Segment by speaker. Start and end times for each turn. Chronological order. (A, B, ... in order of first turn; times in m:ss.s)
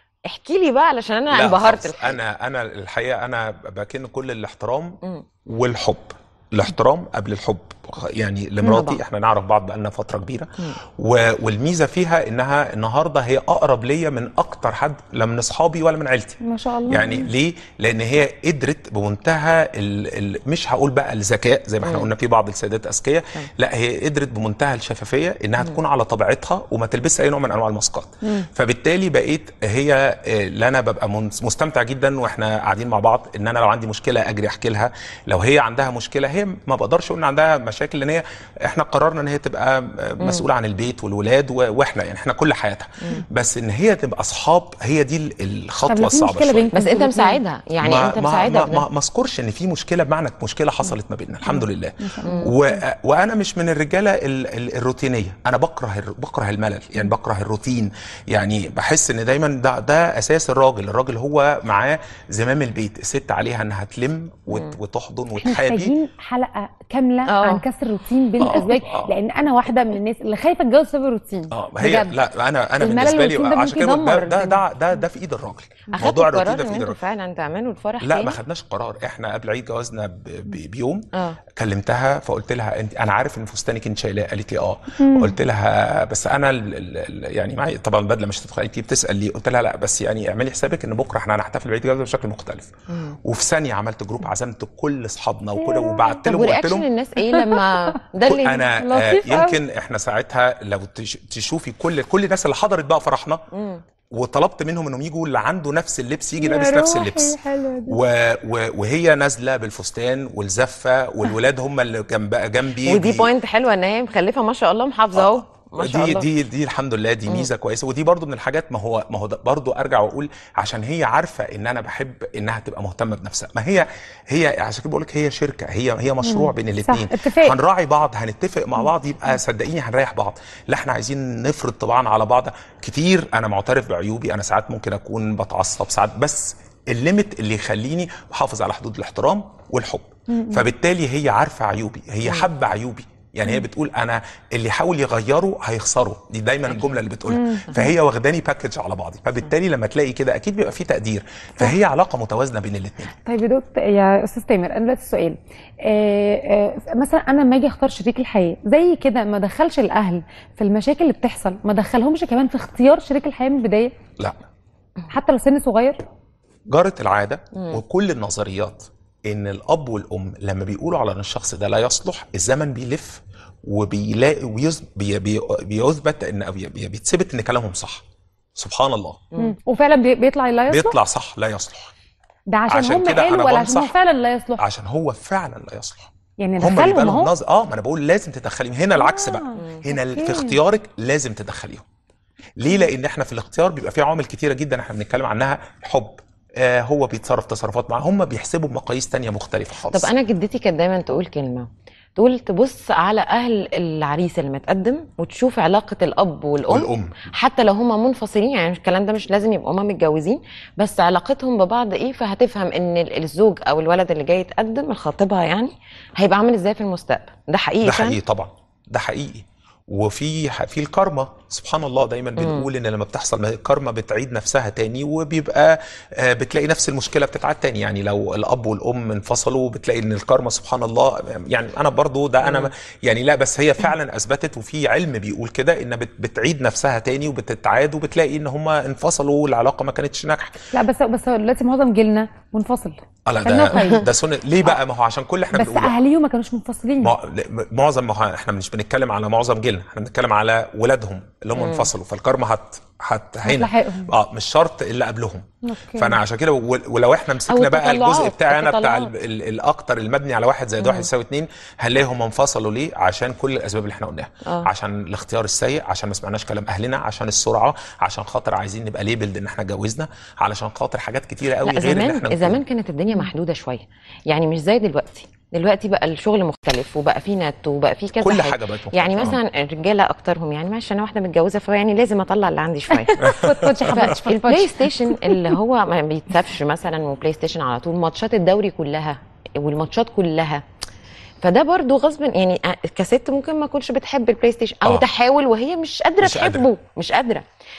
0:00.2-0:02.2 A
0:01.3-0:46.7 B
0:08.6-0:08.9 A
0:08.6-0:08.9 C
0:16.4-0:17.3 C
0:21.8-0:22.1 A
0:45.9-0:47.4 C
0:46.7-0:48.8 A
0:47.8-1:05.9 B
0:51.5-0:52.8 C
0:52.2-0:52.5 A
1:05.4-1:12.1 C
1:07.2-1:07.6 A
1:08.4-1:09.1 B
1:11.5-1:17.0 B
1:12.8-1:14.6 C
1:15.9-1:18.4 A
1:18.0-1:32.7 B
1:21.1-1:21.4 A
1:25.0-1:25.3 C
1:32.9-1:33.2 A
1:33.2-1:36.9 B
1:35.6-1:36.1 C
1:36.2-1:38.7 A
1:37.3-1:37.6 C
1:38.3-1:43.4 B
1:38.8-1:39.6 C
1:43.5-1:43.8 A
1:44.1-1:53.3 B
1:46.4-1:48.0 C
1:52.8-1:56.3 A
1:55.1-2:33.1 B
2:06.2-2:07.6 C
2:20.3-2:20.7 C
2:27.3-2:27.9 C
2:33.2-2:43.9 C
2:45.1-2:46.0 C
2:46.7-2:58.0 B
2:47.5-2:47.8 A
2:58.6-2:59.2 B
2:59.4-3:01.0 C
3:00.7-3:01.9 B
3:02.5-3:04.6 C
3:02.7-3:03.9 B
3:04.6-3:06.1 B
3:06.4-3:07.3 C
3:06.6-3:11.8 B
3:09.0-3:10.6 C
3:12.6-3:20.1 B
3:19.9-3:38.2 A
3:26.7-3:27.1 B
3:37.8-4:00.6 B
3:42.4-3:42.7 A
3:52.4-3:52.7 A
4:00.7-4:04.0 C
4:03.3-4:06.0 B
4:05.5-4:07.1 C
4:07.0-4:32.6 B
4:11.6-4:11.9 A
4:13.4-4:14.1 C
4:15.6-4:16.2 C
4:17.5-4:19.1 A
4:20.8-4:21.1 A
4:31.6-4:43.3 A
4:38.2-4:39.4 B
4:43.0-4:45.6 C
4:43.2-4:44.2 B
4:43.9-4:50.6 A
4:51.4-4:57.4 A
4:56.2-4:56.7 B